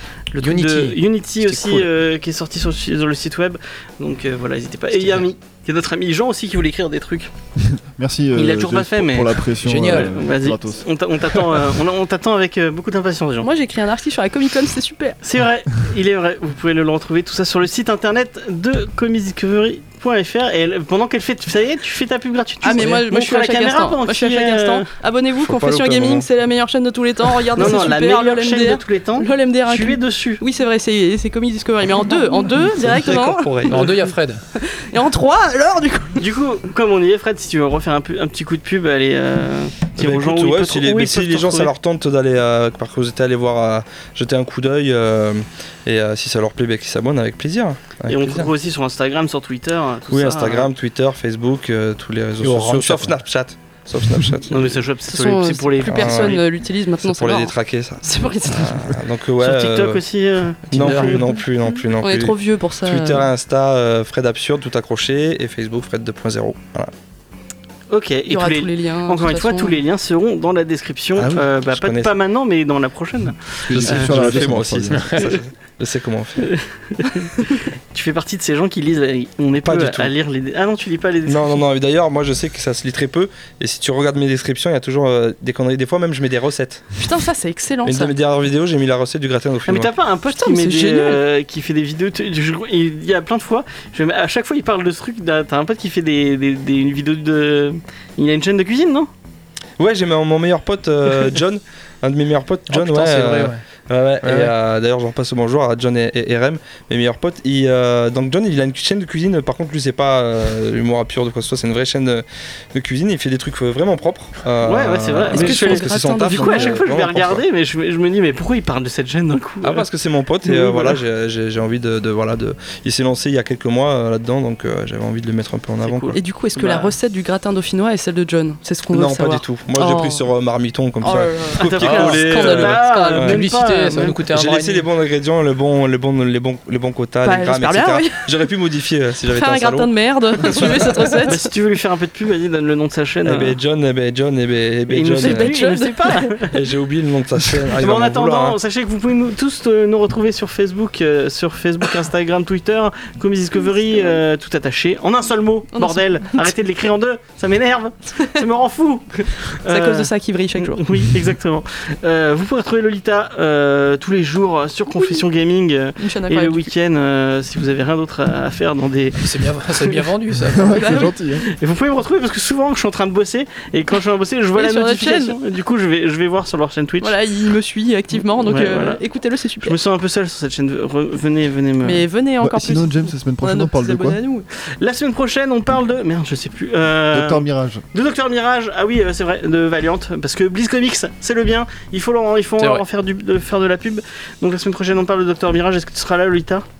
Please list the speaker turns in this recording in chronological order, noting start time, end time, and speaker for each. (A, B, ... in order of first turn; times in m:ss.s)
0:00.3-0:07.3 A
0:00.4-0:01.9 B
0:04.9-0:05.2 B
0:07.6-0:10.9 C
0:08.3-0:13.5 A
0:09.6-0:10.2 B
0:13.4-0:15.2 D
0:15.2-0:24.9 A
0:22.6-0:34.1 D
0:25.4-0:26.3 E
0:27.5-0:30.4 A
0:32.6-0:33.9 E
0:33.7-0:34.4 B
0:34.6-0:36.2 D
0:36.2-0:41.7 A
0:40.0-0:48.5 E
0:48.1-0:50.7 A
0:50.1-0:54.9 E
0:52.4-0:53.2 B
0:54.5-0:56.4 A
0:55.1-0:59.0 D
0:55.8-0:56.4 E
0:57.0-1:00.0 E
0:59.4-1:01.4 A
1:00.7-1:01.2 B
1:00.7-1:06.9 E
1:02.0-1:03.3 D
1:07.9-1:14.5 A
1:08.3-1:09.8 D
1:11.2-1:12.1 E
1:13.7-1:15.1 C
1:13.7-1:16.5 E
1:14.9-1:15.3 B
1:16.4-1:21.6 A
1:19.6-1:20.1 E
1:21.3-1:26.8 E
1:27.0-1:28.2 D
1:27.8-1:29.9 E
1:29.7-1:39.1 A
1:30.3-1:31.2 D
1:39.8-1:57.4 E
1:42.7-1:43.6 B
1:44.2-1:44.5 B
1:54.6-1:59.8 A
1:55.3-1:56.8 D
1:59.6-2:06.2 E
2:00.5-2:01.0 A
2:05.8-2:07.0 A
2:06.1-2:10.3 D
2:08.9-2:13.4 E
2:11.0-2:13.2 D
2:11.6-2:14.2 A
2:11.8-2:14.8 B
2:14.3-2:21.3 E
2:17.2-2:18.5 D
2:19.2-2:21.5 D
2:21.2-2:23.6 A
2:23.2-2:25.5 E
2:24.9-2:26.6 A
2:25.2-2:26.3 D
2:26.5-2:28.6 E
2:27.8-2:50.0 A
2:33.6-2:34.2 D
2:35.7-2:36.5 D
2:38.2-2:38.4 D
2:39.7-2:40.8 D
2:46.0-2:46.7 D
2:49.2-2:50.8 B
2:50.5-2:51.4 C
2:50.8-2:51.1 D
2:51.5-2:57.1 A
2:54.5-2:55.4 D
2:57.0-2:59.8 D
2:58.4-2:59.0 A
2:59.6-3:02.0 A
3:01.8-3:04.5 D
3:02.4-3:04.2 C
3:04.8-3:16.6 A
3:07.1-3:07.8 C
3:12.6-3:12.8 B